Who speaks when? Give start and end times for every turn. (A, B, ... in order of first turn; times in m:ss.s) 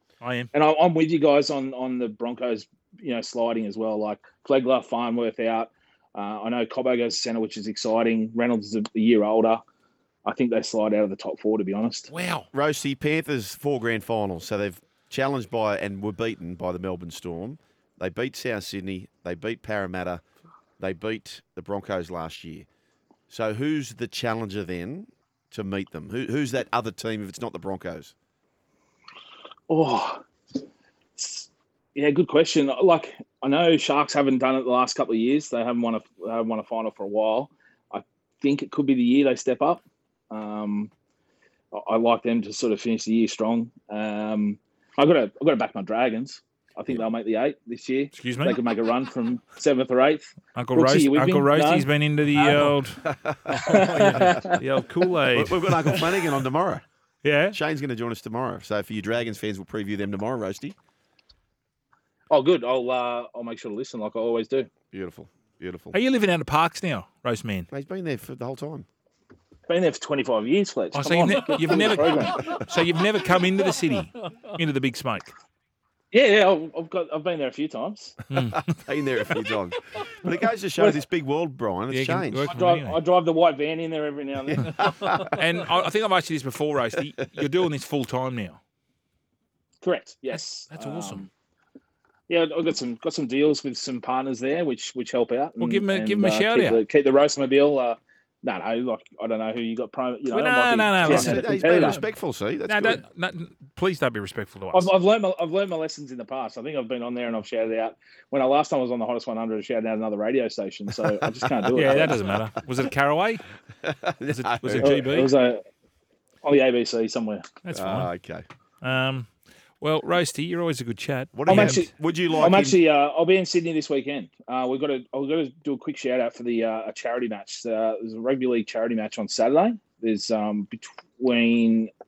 0:00.2-0:00.5 A
0:00.5-0:09.6 B
0:10.2-0:12.1 B
0:12.1-0:12.5 A
0:12.5-0:20.2 C
0:20.8-0:22.7 C
0:23.3-0:28.1 C
0:29.7-0:30.2 B
0:31.2-0:40.9 B
0:41.7-0:51.9 B
0:48.1-0:48.6 A
0:50.6-0:53.0 A
0:52.4-0:54.5 C
0:53.5-0:54.6 B
0:54.0-0:56.2 A
0:55.3-0:56.8 C
0:57.2-0:57.6 A
0:57.5-1:00.8 C
1:02.3-1:04.7 B
1:04.9-1:06.0 C
1:05.9-1:07.7 A
1:07.7-1:08.8 C
1:09.7-1:12.4 B
1:10.9-1:15.3 A
1:16.1-1:18.2 B
1:18.3-1:19.4 A
1:18.3-1:22.5 C
1:21.9-1:23.0 A
1:22.5-1:25.1 B
1:24.4-1:25.4 C
1:25.2-1:28.6 A
1:29.8-1:31.3 B
1:30.3-1:31.3 A
1:32.3-1:42.0 B
1:35.6-1:36.8 A
1:40.3-1:42.0 A
1:41.0-1:43.0 C
1:42.7-1:44.9 A
1:44.7-1:52.1 B
1:50.9-1:52.1 C
1:51.7-1:53.4 A
1:53.8-1:54.9 C
1:54.3-1:55.3 A
1:54.8-1:55.6 B
1:56.4-1:57.5 B
1:57.6-1:58.1 A
1:57.7-1:58.4 C
1:58.8-1:59.3 A
1:59.8-2:01.9 A
2:01.3-2:02.8 C
2:01.5-2:11.9 B